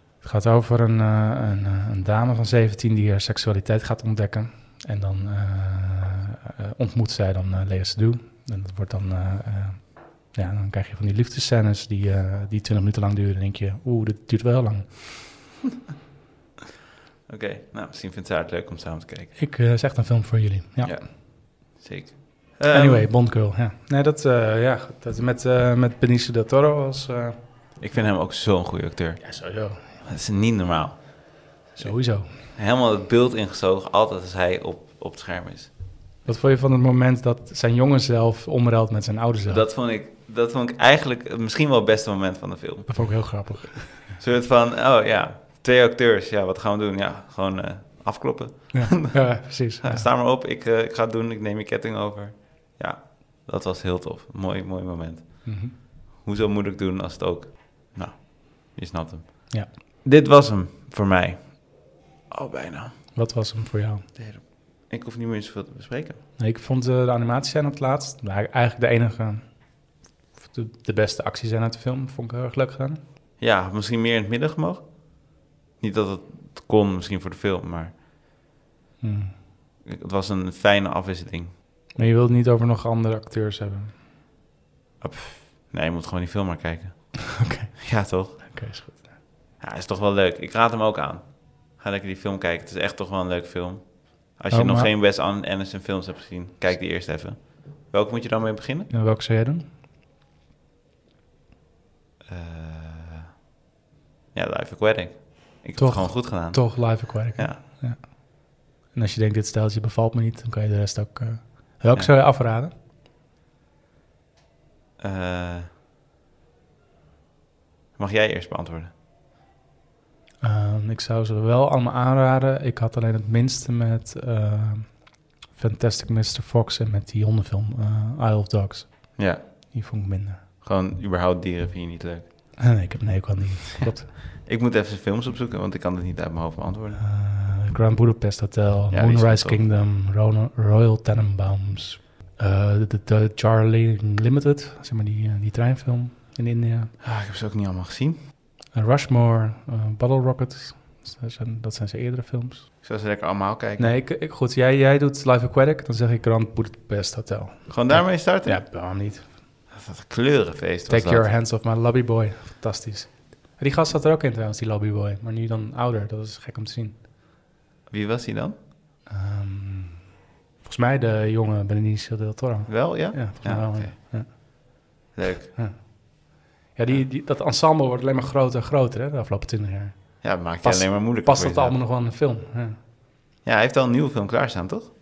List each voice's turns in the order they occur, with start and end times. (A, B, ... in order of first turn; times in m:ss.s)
0:00.2-0:15.0 A
0:17.3-0:19.3 B
0:19.4-0:21.0 A
0:20.8-0:23.1 B
0:22.7-0:27.4 A
0:27.8-0:35.7 B
0:29.2-0:30.0 A
0:31.7-0:32.4 A
0:36.2-0:39.7 A
0:39.4-0:43.4 B
0:42.9-0:44.2 A
0:44.1-1:03.2 B
0:48.7-0:50.1 A
0:55.4-0:55.8 A
1:03.2-1:04.1 A
1:04.2-1:06.2 B
1:06.4-1:13.0 A
1:13.4-1:18.0 B
1:19.0-1:19.4 A
1:19.8-1:21.5 B
1:22.0-1:24.0 A
1:25.0-1:28.6 B
1:27.3-1:29.2 A
1:29.6-1:38.9 B
1:34.5-1:34.9 A
1:38.9-1:39.7 A
1:42.3-1:43.3 B
1:44.3-1:47.6 B
1:45.8-1:52.7 A
1:55.0-1:55.7 B
1:58.0-1:58.9 B
2:00.4-2:10.4 A
2:09.2-2:09.7 B
2:10.6-2:12.6 B
2:12.6-2:14.1 A
2:14.3-2:17.0 B
2:17.0-2:26.9 A
2:18.9-2:19.6 B
2:27.0-2:28.2 B
2:28.7-2:32.7 A
2:32.8-2:33.9 B
2:33.8-2:39.4 A
2:37.7-2:38.7 B
2:39.7-2:41.3 B
2:40.9-2:47.0 A
2:47.9-2:48.6 B
2:49.1-2:54.3 A
2:52.7-2:54.5 B
2:55.2-2:55.6 B
2:55.6-3:02.8 A
3:00.2-3:01.8 B
3:03.4-3:04.9 B